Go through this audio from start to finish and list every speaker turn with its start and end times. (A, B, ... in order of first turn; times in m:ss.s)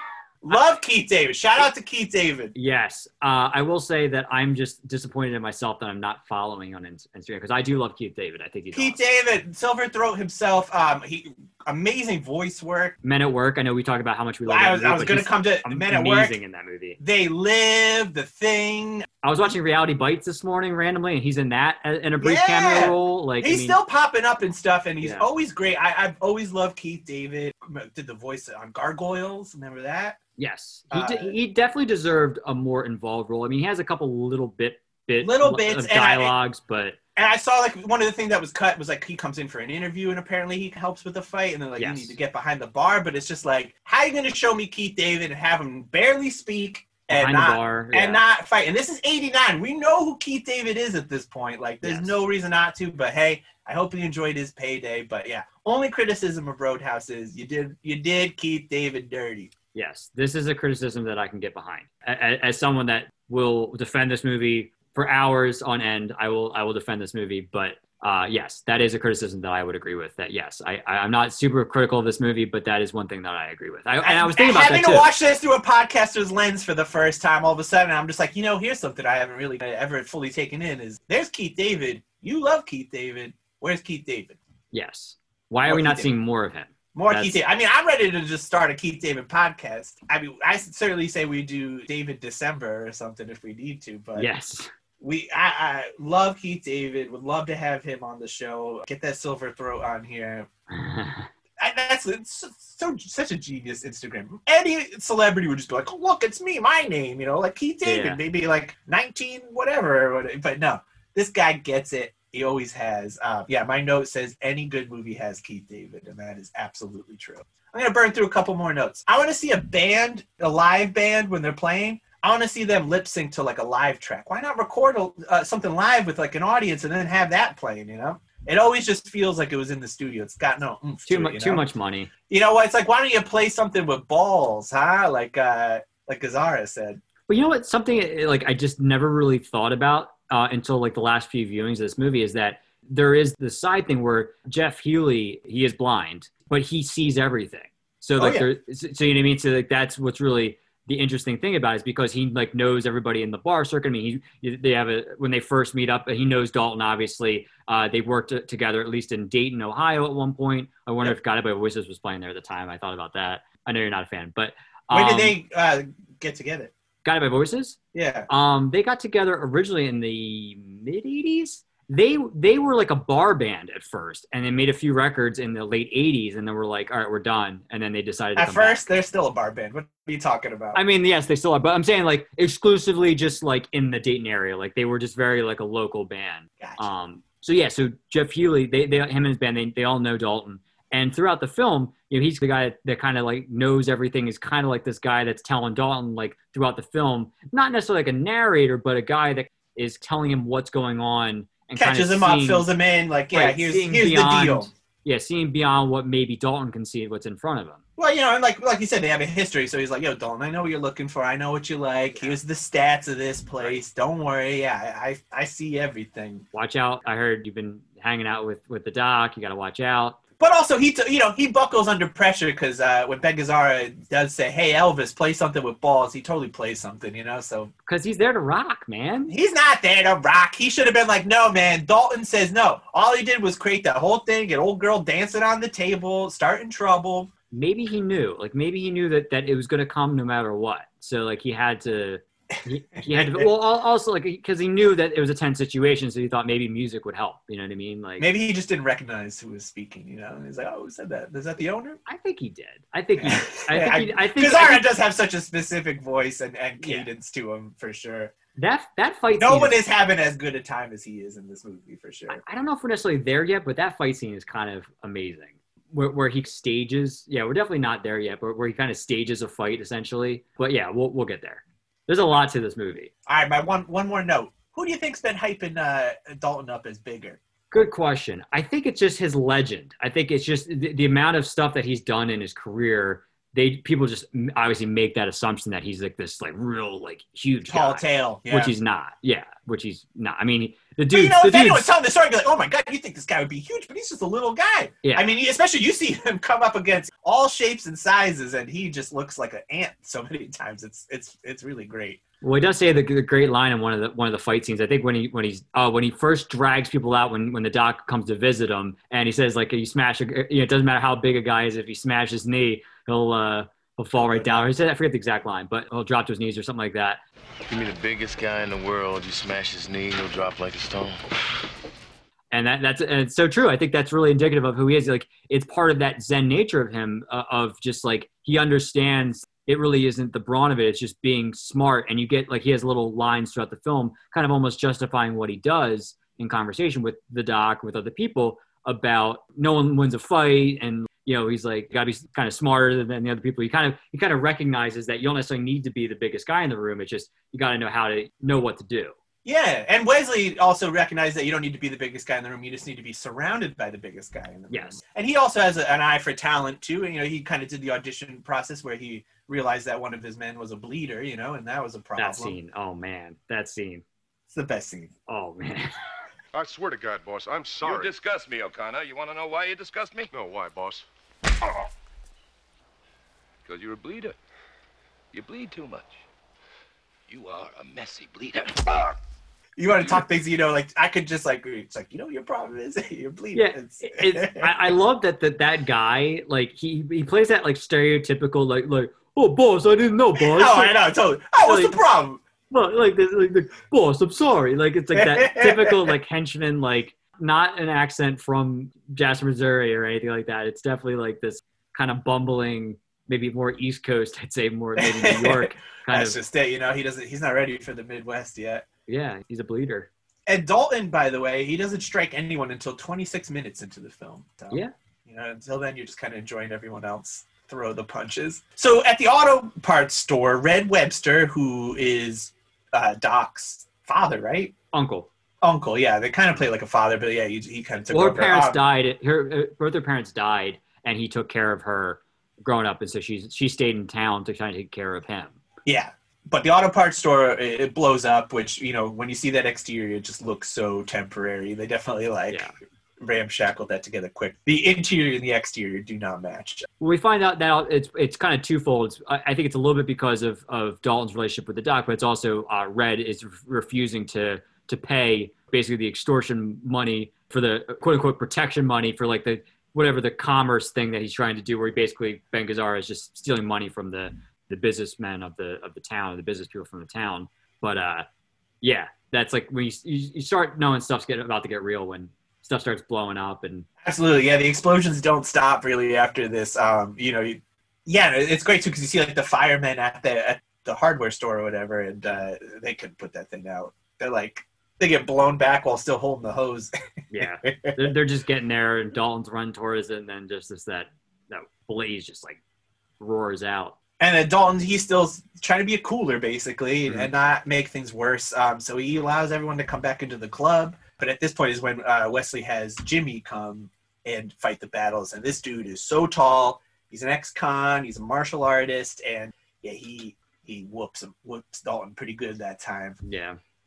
0:00.4-0:02.5 A
0:02.5-0:09.0 B
0:08.7-0:13.0 A
0:13.0-0:17.0 B
0:14.4-0:16.4 A
0:17.0-0:19.0 A
0:19.2-0:23.8 B
0:22.2-0:30.2 A
0:25.0-0:25.3 B
0:30.4-0:37.0 B
0:30.9-0:31.4 A
0:35.2-0:36.3 A
0:37.2-0:59.5 A
0:41.8-0:42.1 B
0:47.1-0:48.2 B
0:51.8-0:52.2 B
0:59.7-1:15.1 B
1:14.0-1:24.4 A
1:24.7-1:27.4 B
1:25.6-1:26.1 A
1:26.9-1:34.3 A
1:34.2-1:34.7 B
1:35.0-1:40.5 A
1:40.7-1:41.3 B
1:41.6-2:11.6 A
1:47.8-1:48.2 B
2:11.0-2:12.1 B
2:12.3-2:17.0 A
2:17.3-2:45.4 B
2:28.2-2:28.5 A
2:44.9-2:46.7 A
2:47.0-2:58.8 B
2:47.9-2:48.3 A
2:58.4-3:00.8 A
3:00.7-3:22.7 B
3:06.6-3:06.8 A
3:21.8-3:24.7 A
3:23.3-3:27.8 B
3:28.0-3:36.4 A
3:32.1-3:32.4 B
3:36.5-3:40.2 B
3:40.4-3:47.7 A
3:47.9-3:49.3 B
3:49.3-3:57.3 A
3:57.5-4:08.3 B
4:03.0-4:03.5 A
4:08.2-4:12.0 A
4:12.0-4:14.9 B
4:13.2-4:18.3 A
4:16.8-4:17.1 B
4:18.6-4:19.8 B
4:19.3-4:22.4 A
4:22.3-4:33.1 B
4:33.2-4:37.4 A
4:37.7-4:51.9 B
4:47.7-4:48.7 A
4:51.1-5:02.2 A
5:02.4-5:17.2 B
5:14.3-5:14.6 A
5:17.7-5:21.3 C
5:22.5-5:49.1 B
5:49.4-6:02.6 A
5:54.7-5:55.0 B
6:02.2-6:04.0 B
6:04.5-6:05.1 A
6:05.3-6:05.9 B
6:06.5-6:08.1 D
6:07.8-6:10.3 E
6:10.3-6:11.0 D
6:13.6-6:14.4 E
6:15.3-6:16.2 E
6:17.3-6:19.2 E
6:19.8-6:24.9 A
6:23.5-6:31.0 B
6:30.4-6:32.4 A
6:31.6-6:32.0 B
6:32.7-6:46.4 B
6:35.1-6:36.1 A
6:45.0-6:48.8 A
6:49.1-6:50.1 B
6:50.5-7:04.7 A
7:04.9-7:05.3 B
7:05.6-7:08.8 A
7:08.1-7:15.6 B
7:15.8-7:22.7 A
7:23.2-7:26.9 A
7:27.0-7:48.2 B
7:48.8-7:53.9 B
7:54.0-8:08.1 A
8:07.3-8:12.6 B
8:13.2-8:13.9 B
8:14.2-8:33.2 A
8:33.2-8:33.6 B